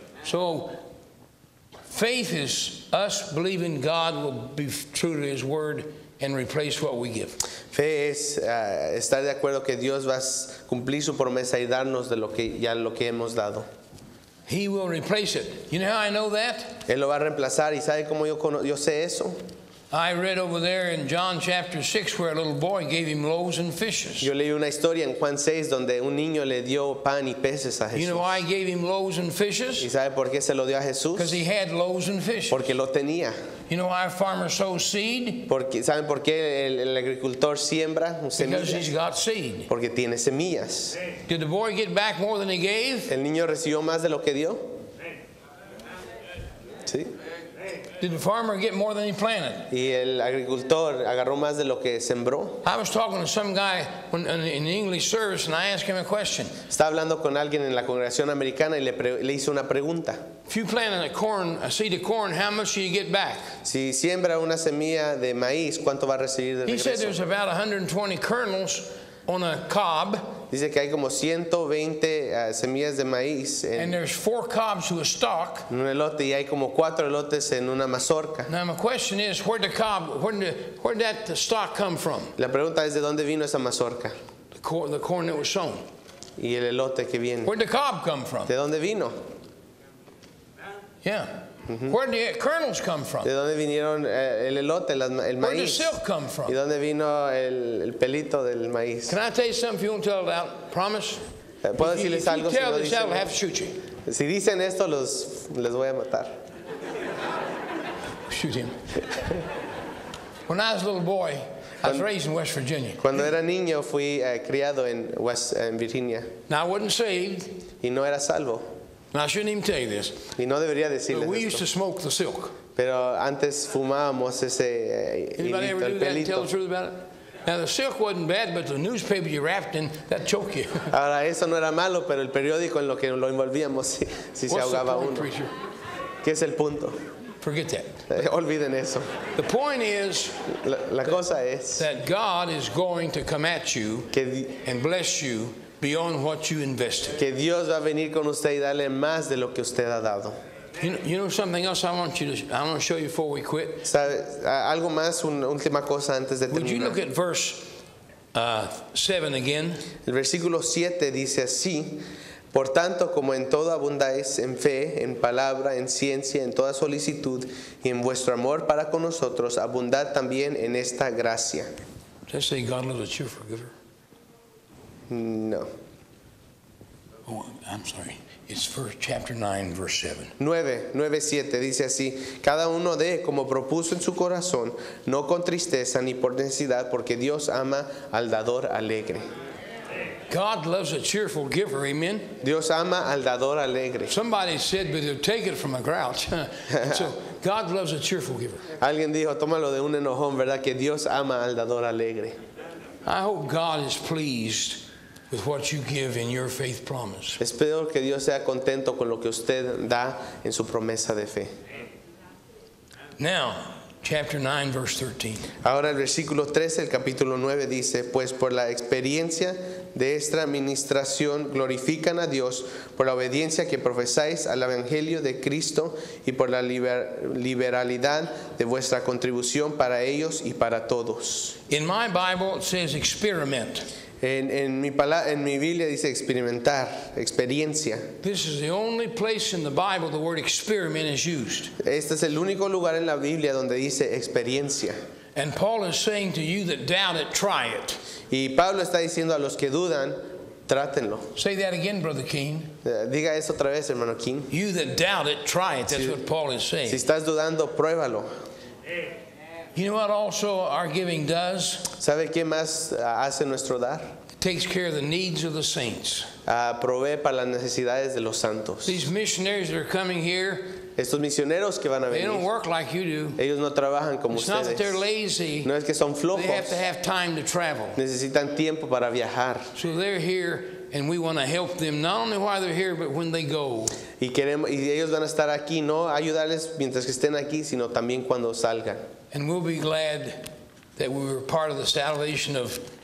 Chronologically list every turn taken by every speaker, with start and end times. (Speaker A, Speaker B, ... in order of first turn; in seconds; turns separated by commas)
Speaker A: 0.2-0.8, Speaker A: 1.9-7.4, Speaker B: 7.7-13.7, Speaker A: 14.5-16.8, Speaker B: 16.9-19.4, Speaker A: 19.9-24.3, Speaker B: 24.2-28.4, Speaker A: 27.9-29.9, Speaker B: 29.8-31.4, Speaker A: 31.1-32.6, Speaker B: 32.5-33.3, Speaker A: 33.7-35.5, Speaker B: 35.5-38.9, Speaker A: 38.4-39.7, Speaker B: 39.7-41.0, Speaker A: 41.3-43.1, Speaker B: 43.1-44.7, Speaker B: 46.9-47.1, Speaker A: 48.0-49.7, Speaker B: 49.7-52.6, Speaker A: 52.6-56.6, Speaker B: 56.7-60.2, Speaker A: 60.5-63.5, Speaker B: 63.6-67.2, Speaker A: 66.6-70.4, Speaker B: 70.5-73.9, Speaker A: 73.8-75.7, Speaker B: 75.7-78.5, Speaker A: 78.5-82.3, Speaker B: 82.4-84.1, Speaker A: 84.5-85.8, Speaker B: 86.4-87.5, Speaker A: 87.4-88.5, Speaker B: 88.5-89.2, Speaker A: 91.0-93.3, Speaker B: 91.7-92.0, Speaker B: 93.2-95.9, Speaker A: 95.4-96.6, Speaker B: 96.5-99.1, Speaker A: 99.1-101.2, Speaker B: 101.6-103.3, Speaker A: 101.8-103.8, Speaker B: 104.0-106.4, Speaker A: 108.3-109.0, Speaker A: 110.5-113.1, Speaker B: 113.0-116.3, Speaker A: 116.5-117.6, Speaker B: 117.8-118.7, Speaker A: 119.1-120.2, Speaker B: 120.4-121.7, Speaker A: 121.1-122.6, Speaker B: 122.8-126.5, Speaker A: 125.4-130.9, Speaker B: 130.9-135.3, Speaker A: 134.5-135.5, Speaker B: 136.2-137.0, Speaker A: 137.4-138.1, Speaker B: 138.1-139.1, Speaker A: 139.3-140.4, Speaker B: 140.5-141.8, Speaker A: 141.8-144.1, Speaker B: 144.1-144.6, Speaker A: 144.6-147.2, Speaker B: 147.2-150.4, Speaker A: 150.8-153.9, Speaker B: 153.8-157.0, Speaker A: 156.5-157.7, Speaker A: 158.3-159.8, Speaker B: 160.0-171.7, Speaker A: 172.3-173.7, Speaker B: 175.1-175.7, Speaker A: 177.2-180.3, Speaker B: 180.4-189.2, Speaker A: 190.3-192.3, Speaker B: 192.4-194.1, Speaker A: 194.1-198.6, Speaker B: 196.7-197.1, Speaker B: 198.8-202.3, Speaker A: 203.0-207.4, Speaker B: 207.4-211.5, Speaker A: 213.2-215.5, Speaker B: 215.6-231.6, Speaker A: 231.7-233.8, Speaker B: 234.2-238.1, Speaker A: 238.2-241.7, Speaker B: 241.8-244.9, Speaker A: 245.3-248.0, Speaker B: 248.3-251.3, Speaker A: 251.3-252.7, Speaker B: 252.8-254.5, Speaker A: 254.5-257.0, Speaker B: 255.9-256.2, Speaker B: 256.9-258.3, Speaker A: 259.7-261.9, Speaker B: 261.9-264.1, Speaker A: 264.4-266.3, Speaker B: 266.4-269.0, Speaker A: 268.8-270.9, Speaker B: 271.0-272.4, Speaker A: 272.1-273.4, Speaker B: 273.4-275.0, Speaker A: 274.3-275.7, Speaker B: 275.6-276.8, Speaker A: 276.3-278.0, Speaker B: 277.9-279.7, Speaker A: 279.7-284.0, Speaker B: 284.2-289.0, Speaker A: 289.3-292.8